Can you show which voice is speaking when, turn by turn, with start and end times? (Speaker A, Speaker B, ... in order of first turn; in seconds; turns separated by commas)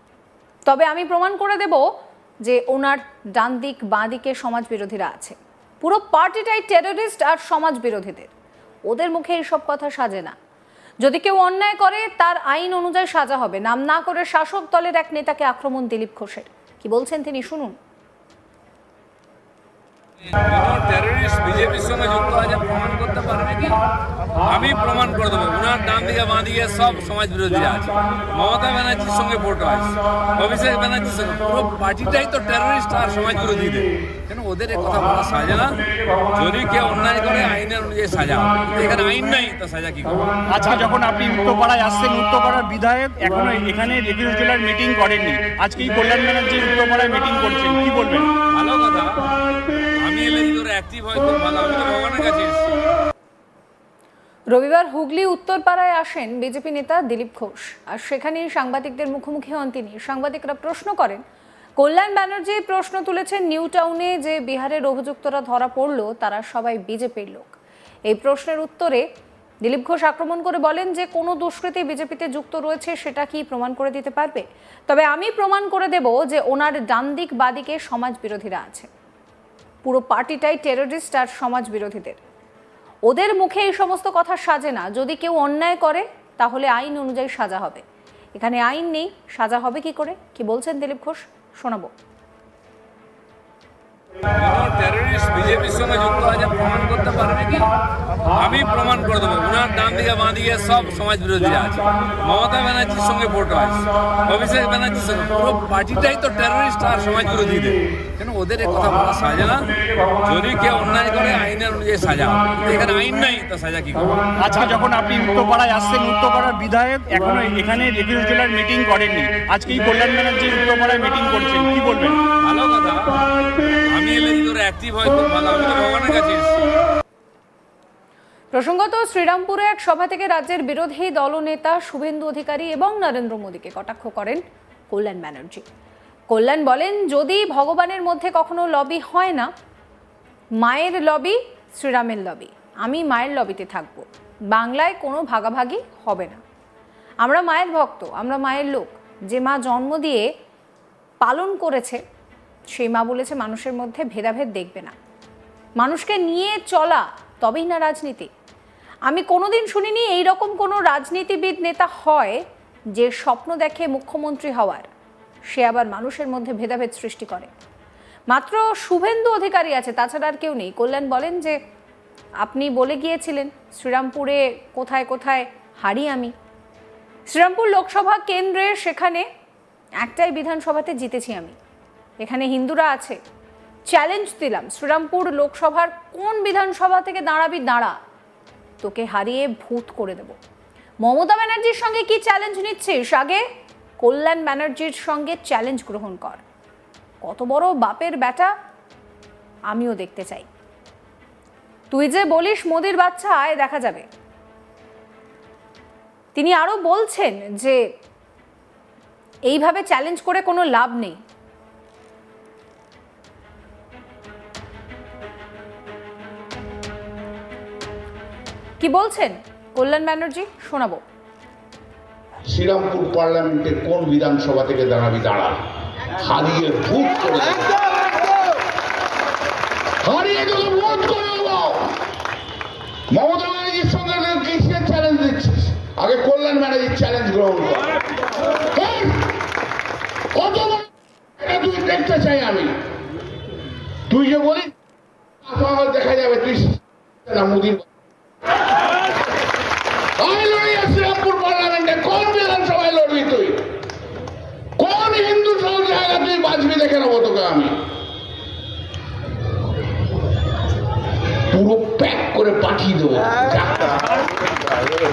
Speaker A: 0.7-1.9, Speaker A: 2.4-8.3, Speaker A: 8.9-10.3, Speaker A: 11.0-17.8, Speaker B: 20.3-23.8, Speaker B: 24.4-40.4, Speaker C: 40.5-48.3, Speaker B: 48.5-49.2, Speaker B: 50.0-52.8, Speaker A: 54.5-61.2, Speaker A: 61.8-67.5, Speaker A: 68.1-69.0, Speaker A: 69.6-78.9, Speaker A: 79.8-82.2, Speaker A: 83.1-87.8, Speaker A: 88.3-91.9, Speaker B: 94.3-97.7, Speaker B: 98.3-114.3, Speaker C: 114.4-122.2, Speaker B: 122.4-123.2, Speaker B: 123.9-126.6, Speaker A: 128.5-135.6, Speaker A: 136.3-139.5, Speaker A: 140.6-146.4, Speaker A: 147.2-150.2, Speaker A: 151.2-152.0, Speaker A: 152.7-154.9, Speaker A: 155.8-158.3, Speaker A: 159.1-162.4, Speaker A: 162.9-164.9, Speaker A: 165.5-167.5, Speaker A: 168.3-171.6, Speaker A: 172.4-176.3, Speaker A: 177.3-179.2, Speaker A: 180.0-181.6, Speaker A: 182.2-183.2, Speaker A: 183.9-187.9, Speaker A: 188.8-190.3, Speaker A: 191.0-193.4, Speaker A: 194.0-196.4, Speaker A: 197.2-198.5, Speaker A: 199.7-200.5, Speaker A: 201.9-204.1, Speaker A: 206.3-207.8, Speaker A: 209.5-211.2, Speaker A: 218.8-221.0, Speaker D: 222.5-225.6, Speaker D: 226.2-227.7, Speaker D: 230.0-231.9, Speaker D: 233.1-237.9, Speaker D: 238.7-239.3, Speaker D: 240.3-242.7, Speaker D: 244.1-244.7, Speaker D: 245.4-247.8, Speaker D: 250.2-253.7, Speaker D: 254.8-257.8, Speaker D: 261.5-263.9